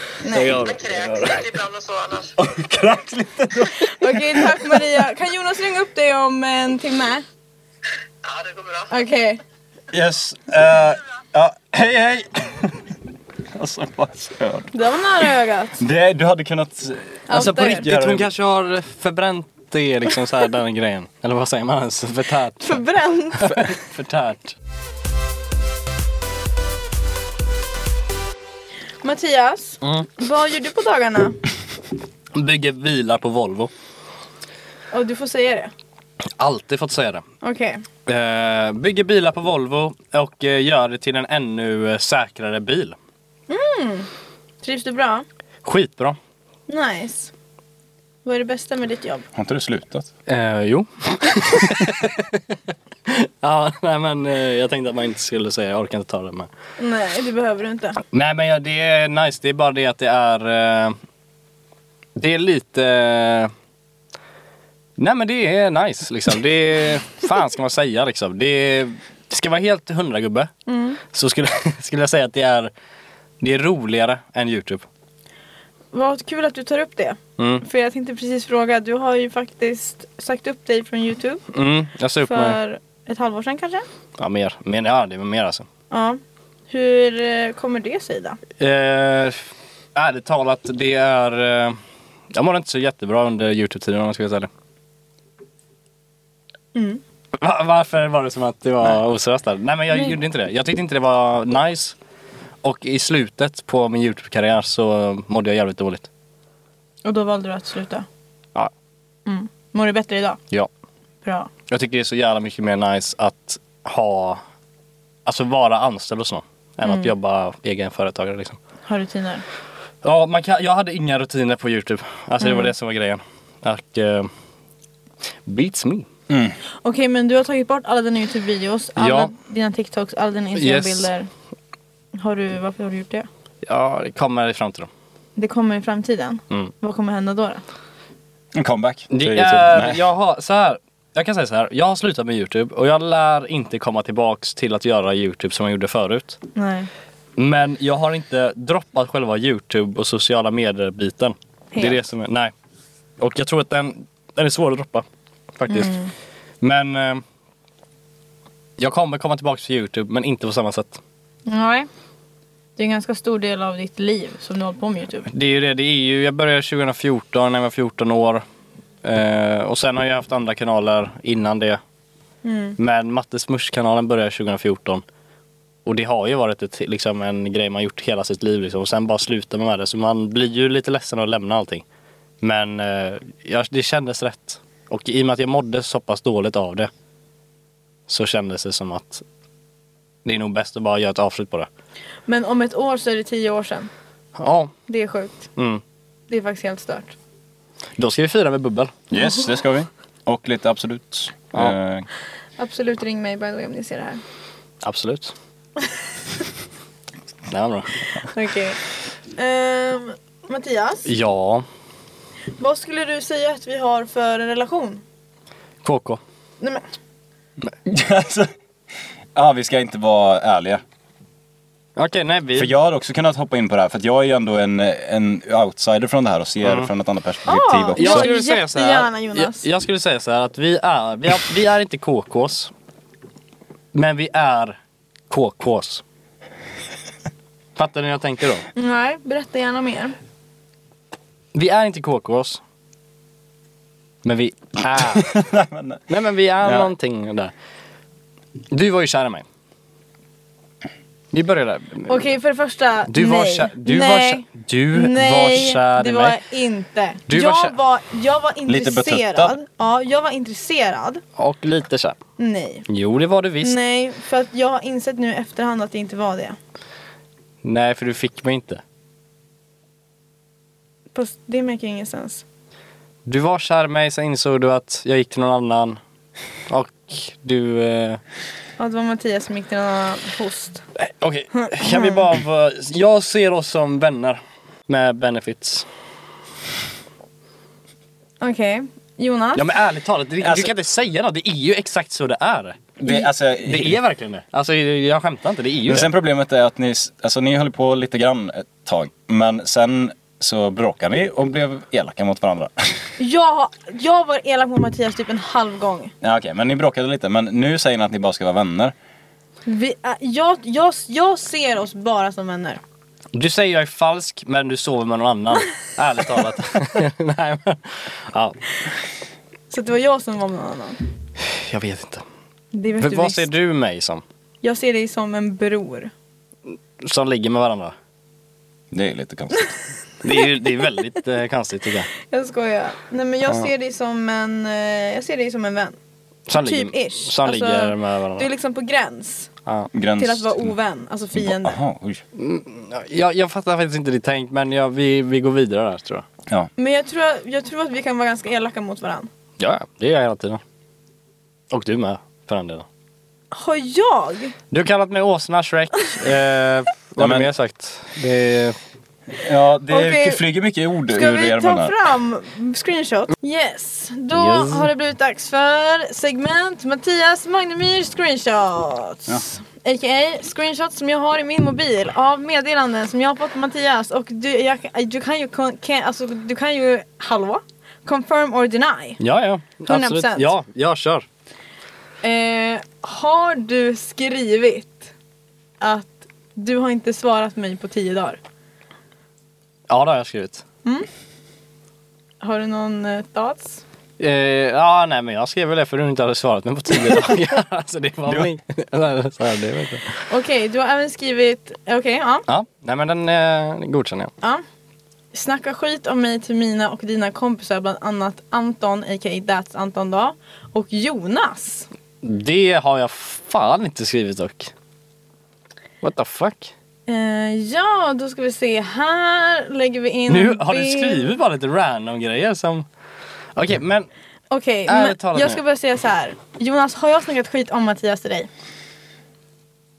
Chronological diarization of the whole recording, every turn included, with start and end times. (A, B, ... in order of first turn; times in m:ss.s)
0:00.2-0:00.6 A
0:00.3-0:01.5 B
0:00.4-0:02.3 C
0:02.4-0:04.9 D
0:03.8-0:07.2 A
0:08.2-0:08.9 C
0:08.9-0:09.4 A
0:09.9-0:12.8 D
0:13.5-0:14.7 D
0:14.7-0:15.8 A
0:15.8-0:18.3 D
0:17.3-0:17.9 A
0:17.3-0:22.8 B
0:22.6-0:23.6 A
0:23.5-0:24.6 B
0:29.0-0:31.4 A
0:29.8-0:30.1 B
0:32.4-0:33.7 B
0:34.9-0:35.7 A
0:36.4-0:37.2 B
0:37.4-0:37.8 A
0:38.1-0:43.0 B
0:43.5-0:44.1 A
0:44.6-0:45.2 A
0:45.6-0:46.2 B
0:46.7-0:47.3 A
0:48.2-0:49.3 A
0:49.4-0:50.1 D
0:50.3-0:52.6 B
0:53.1-0:56.5 B
0:56.8-0:58.0 A
0:58.1-1:01.0 B
1:02.2-1:03.5 B
1:05.0-1:10.5 B
1:10.7-1:11.0 A
1:11.1-1:12.7 B
1:13.4-1:14.9 B
1:15.9-1:21.4 A
1:17.4-1:17.6 B
1:21.5-1:22.6 B
1:22.2-1:23.9 A
1:24.2-1:25.7 B
1:25.9-1:28.4 A
1:28.6-1:31.8 B
1:32.3-1:34.5 B
1:36.8-1:37.0 A
1:37.4-1:42.0 B
1:42.6-1:46.1 B
1:47.0-1:48.1 A
1:49.3-1:50.4 A
1:51.2-1:51.5 A
1:51.7-1:54.4 B
1:55.3-1:58.6 B
1:56.8-1:57.1 A
1:58.9-1:59.4 A
2:00.0-2:04.3 B
2:02.4-2:02.7 A
2:05.5-2:06.1 B
2:06.3-2:06.6 D
2:06.8-2:11.3 A
2:09.0-2:09.3 B
2:10.6-2:11.1 B
2:12.2-2:13.3 A
2:13.6-2:14.9 B
2:15.4-2:17.6 A
2:18.5-2:20.0 D
2:19.1-2:26.4 B
2:26.6-2:26.9 A
2:27.4-2:32.5 B
2:31.7-2:32.0 A
2:33.2-2:35.0 B
2:35.6-2:35.9 B
2:35.7-2:36.1 A
2:36.6-2:37.2 B
2:38.8-2:41.0 B
2:41.5-2:41.9 A
2:42.8-2:45.3 A
2:45.3-2:48.4 B
2:49.0-2:51.8 B
2:52.4-2:52.8 A
2:52.8-2:55.0 B
2:55.8-3:01.8 B
3:02.4-3:06.9 B
3:08.1-3:09.2 B
3:10.2-3:11.7 B
3:12.3-3:13.9 A
3:14.4-3:14.7 B
3:14.9-3:15.5 A
3:15.6-3:15.8 B
3:16.3-3:17.2 A
3:18.0-3:18.9 B
3:19.1-3:22.1 D
3:22.6-3:24.2 A
3:24.8-3:25.3 B
3:27.5-3:28.1 B
3:28.3-3:28.8 A
3:29.4-3:31.1 A
3:31.0-3:31.6 B
3:32.6-3:35.0 A
3:35.8-3:36.2 B
3:37.8-3:38.5 D
3:39.4-3:40.8 D
3:42.0-3:42.7 B
3:42.6-3:48.3 D
3:46.6-3:46.9 B
3:47.5-3:49.7 A
3:48.0-3:52.7 B
3:53.9-3:54.8 B
3:55.3-3:56.0 B
3:57.8-3:58.7 B
3:58.8-4:00.2 A
4:01.5-4:02.6 B
4:04.2-4:05.3 B
4:05.0-4:06.0 D
4:06.1-4:07.5 B
4:06.6-4:06.9 D
4:08.7-4:09.4 B
4:11.3-4:12.2 B
4:12.1-4:21.2 A
4:13.1-4:16.4 B
4:17.3-4:17.8 B
4:18.7-4:19.6 D
4:21.4-4:22.2 B
4:22.4-4:22.9 A
4:22.9-4:23.8 B
4:23.6-4:26.6 A
4:27.6-4:28.8 B
4:31.1-4:32.4 A
4:33.3-4:36.0 B
4:36.7-4:38.2 B
4:38.8-4:40.8 A
4:41.0-4:45.9 B
4:41.5-4:42.2 A
4:48.4-4:49.7 A
4:49.6-4:52.8 B
4:50.4-4:50.7 D
4:53.0-4:54.0 D
4:53.6-4:56.1 B
4:55.9-5:03.0 D
5:03.2-5:06.1 A
5:06.2-5:09.0 D
5:09.7-5:12.8 A
5:13.3-5:18.6 B
5:19.7-5:21.0 A
5:21.4-5:22.2 B
5:22.7-5:23.5 A
5:23.0-5:24.2 B
5:24.6-5:26.1 A
5:27.0-5:28.0 B
5:28.9-5:29.7 D
5:30.2-5:32.1 B
5:32.3-5:36.0 A
5:36.5-5:38.5 B
5:36.5-5:39.5 A
5:39.9-5:40.7 D
5:40.2-5:41.8 A
5:41.3-5:42.2 D
5:42.4-5:46.3 B
5:46.8-5:49.3 A
5:49.6-5:50.6 B
5:51.7-5:52.9 B
5:53.5-5:54.6 A
5:54.7-5:58.8 B
5:57.2-5:57.5 D
5:59.4-6:02.0 D
5:59.9-6:00.4 A
6:01.1-6:19.2 A
6:04.3-6:04.9 B
6:19.2-6:21.3 B
6:19.9-6:20.5 A
6:22.2-6:25.1 A
6:25.8-6:28.4 A
6:29.9-6:30.6 B
6:32.4-6:33.8 A
6:34.2-6:40.2 B
6:38.3-6:38.5 D
6:40.3-6:42.5 A
6:42.5-6:44.3 B
6:45.3-6:51.9 A
6:52.2-6:54.7 B
6:56.0-6:56.7 B
6:57.1-7:01.4 A
7:00.3-7:02.9 B
7:03.6-7:04.1 B
7:04.5-7:08.5 A
7:04.9-7:05.6 B